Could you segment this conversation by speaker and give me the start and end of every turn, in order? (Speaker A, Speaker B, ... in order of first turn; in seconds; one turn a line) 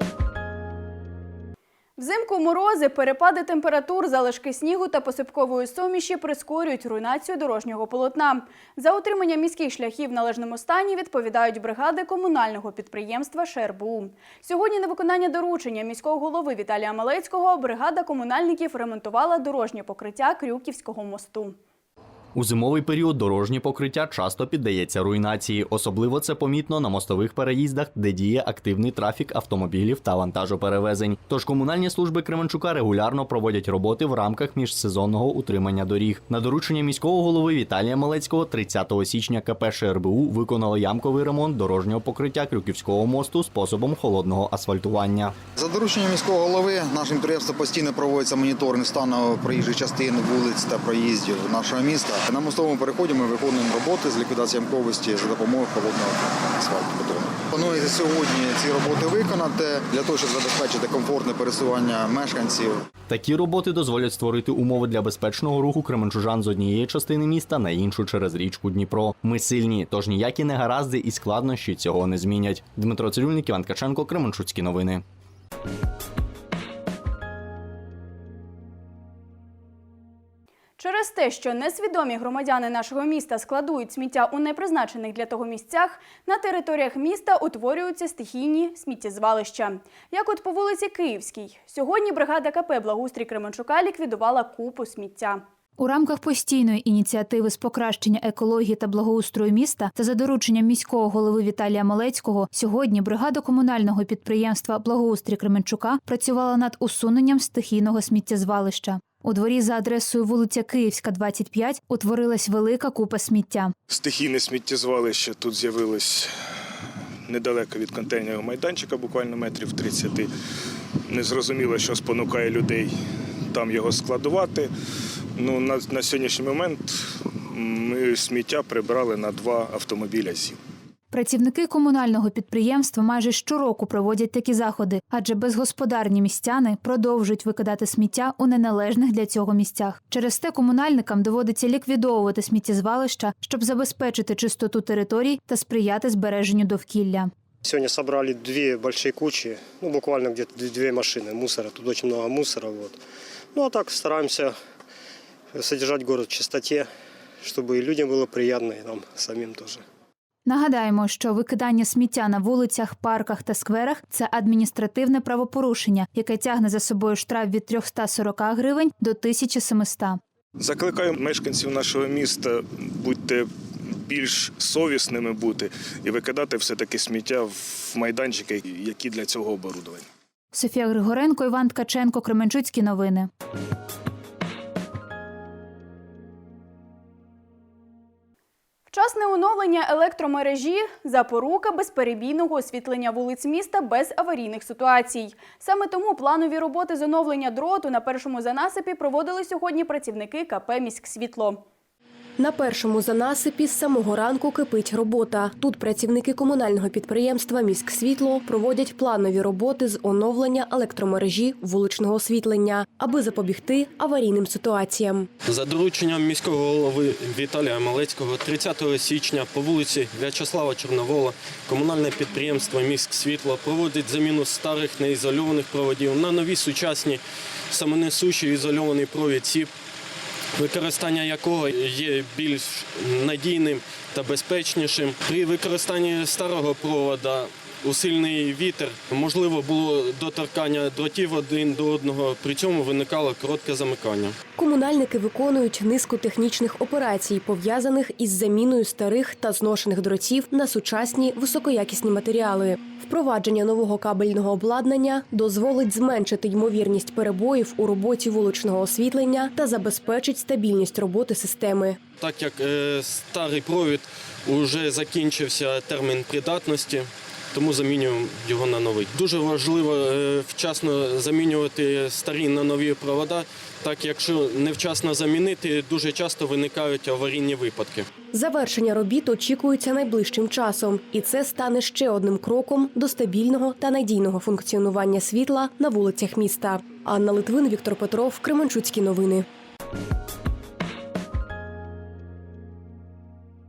Speaker A: 2.0-21.6
Speaker B: 22.4-45.4
Speaker C: 45.6-62.8
Speaker B: 63.1-75.0
Speaker A: 80.8-95.4
Speaker D: 95.8-113.7
Speaker E: 113.9-116.3
Speaker E: 117.3-120.3
Speaker E: 121.1-122.9
Speaker E: 123.5-124.7
Speaker E: 125.4-126.9
Speaker E: 127.5-130.6
Speaker D: 131.1-147.3
Speaker F: 147.7-153.0
Speaker F: 153.6-154.5
Speaker F: 155.5-156.9
Speaker F: 157.4-159.8
Speaker D: 160.5-170.2
Speaker E: 170.6-173.5
Speaker E: 174.1-180.1
Speaker D: 180.5-183.3
Speaker A: 188.9-201.6
Speaker G: 202.4-215.3
Speaker H: 215.5-229.7
Speaker H: 230.6-244.4
Speaker G: 244.6-262.0
Speaker H: 262.2-278.1
Speaker G: 278.3-289.5